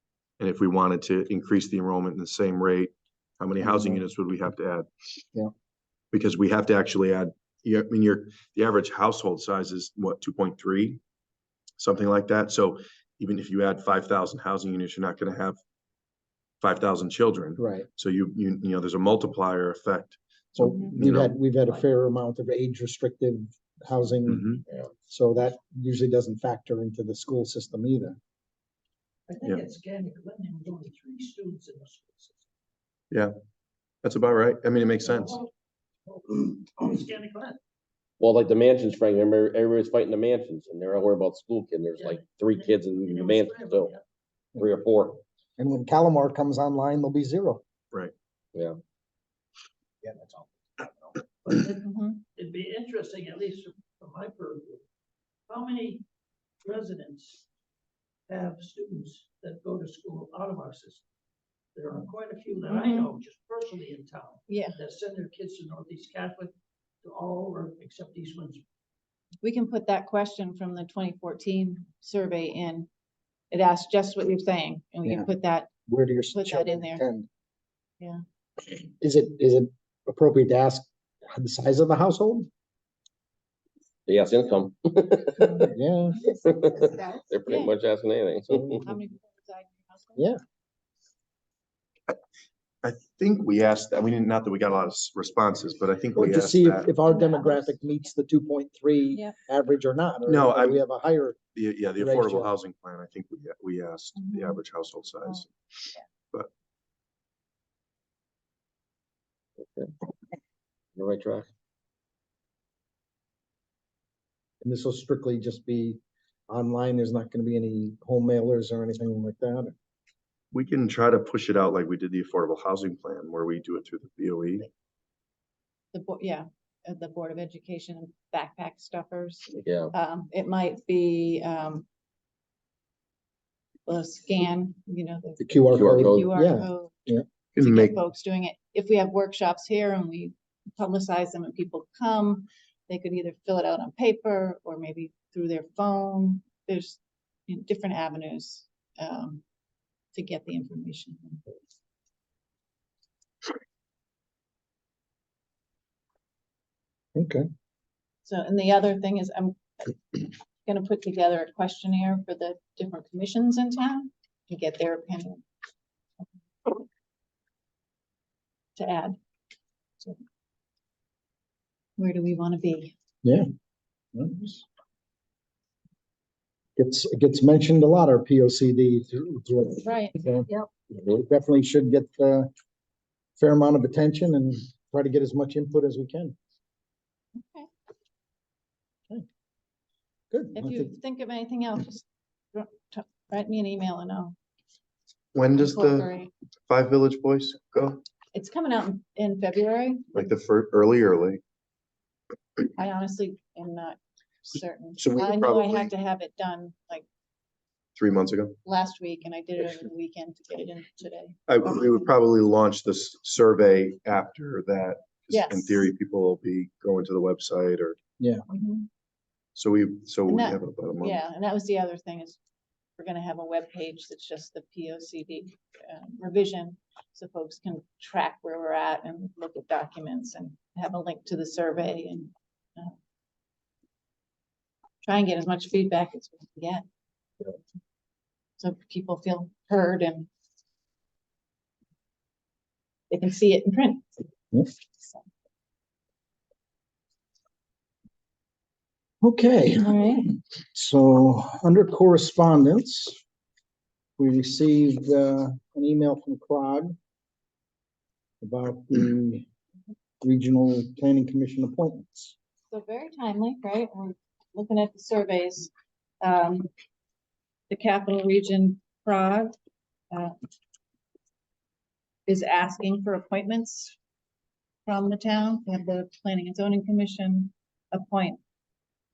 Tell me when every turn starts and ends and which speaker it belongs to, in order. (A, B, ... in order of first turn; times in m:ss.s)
0:00.4-0:04.9 A
0:03.6-0:04.0 B
0:06.1-0:11.0 A
0:11.8-0:15.6 A
0:16.6-0:21.4 A
0:17.6-0:17.9 B
0:20.6-0:24.5 B
0:24.3-0:24.6 A
0:25.1-0:28.2 B
0:29.3-0:32.4 C
0:34.0-0:35.4 A
0:35.0-0:35.5 C
0:36.1-0:37.6 C
0:38.2-0:43.9 D
0:42.0-0:44.0 C
0:44.6-0:45.2 D
0:45.6-0:47.6 B
0:50.0-0:50.9 B
0:51.4-0:54.8 C
0:51.8-0:52.2 E
0:55.5-0:56.0 C
0:56.6-0:57.4 C
0:58.3-1:01.0 C
1:01.8-1:08.6 C
1:02.7-1:03.1 E
1:04.5-1:04.8 E
1:09.4-1:12.9 E
1:13.5-1:15.7 E
1:15.0-1:15.3 B
1:15.9-1:17.3 B
1:16.3-1:17.0 E
1:19.0-1:22.5 B
1:24.1-1:25.7 D
1:25.7-1:26.3 B
1:26.4-1:28.9 D
1:26.8-1:27.0 C
1:27.5-1:27.8 E
1:28.5-1:28.8 B
1:28.8-1:30.3 E
1:32.8-1:36.9 A
1:36.2-1:41.4 B
1:37.1-1:37.7 E
1:39.1-1:39.4 E
1:40.3-1:40.8 A
1:41.5-1:45.5 A
1:42.0-1:42.5 B
1:44.2-1:44.6 E
1:49.6-1:49.9 D
1:51.0-1:51.5 D
1:54.6-1:59.7 B
2:00.5-2:04.7 A
2:05.9-2:11.9 E
2:09.6-2:09.9 D
2:13.9-2:17.0 E
2:15.4-2:17.2 B
2:15.7-2:16.3 D
2:17.6-2:18.0 A
2:17.6-2:29.4 E
2:30.1-2:31.4 E
2:37.2-2:37.5 B
2:38.3-2:45.4 E
2:48.8-2:49.2 E
2:52.0-2:52.9 E
2:54.2-2:54.6 B
2:56.8-3:02.5 B
2:59.8-3:00.2 E
3:03.4-3:06.4 B
3:07.4-3:07.7 E
3:10.3-3:10.9 B
3:10.6-3:14.4 E
3:15.3-3:16.1 A
3:15.5-3:16.3 E
3:16.7-3:18.0 A
3:18.3-3:20.2 E
3:20.1-3:21.4 A
3:22.7-3:27.1 E
3:25.0-3:25.9 A
3:28.0-3:28.6 A
3:28.6-3:31.9 E
3:31.5-3:38.0 A
3:35.3-3:35.9 E
3:38.5-3:38.9 E
3:39.6-3:41.2 A
3:40.3-3:42.4 E
3:43.0-3:53.0 E
3:55.0-3:56.8 E
3:58.6-4:00.3 E
4:03.1-4:04.1 E
4:05.0-4:05.2 E
4:09.2-4:13.2 B
4:09.8-4:10.3 E
4:14.2-4:17.0 B
4:18.4-4:19.4 B
4:20.2-4:22.4 B
4:22.7-4:26.7 E
4:27.7-4:29.6 E
4:30.1-4:30.4 E
4:32.3-4:34.0 E
4:34.9-4:38.4 E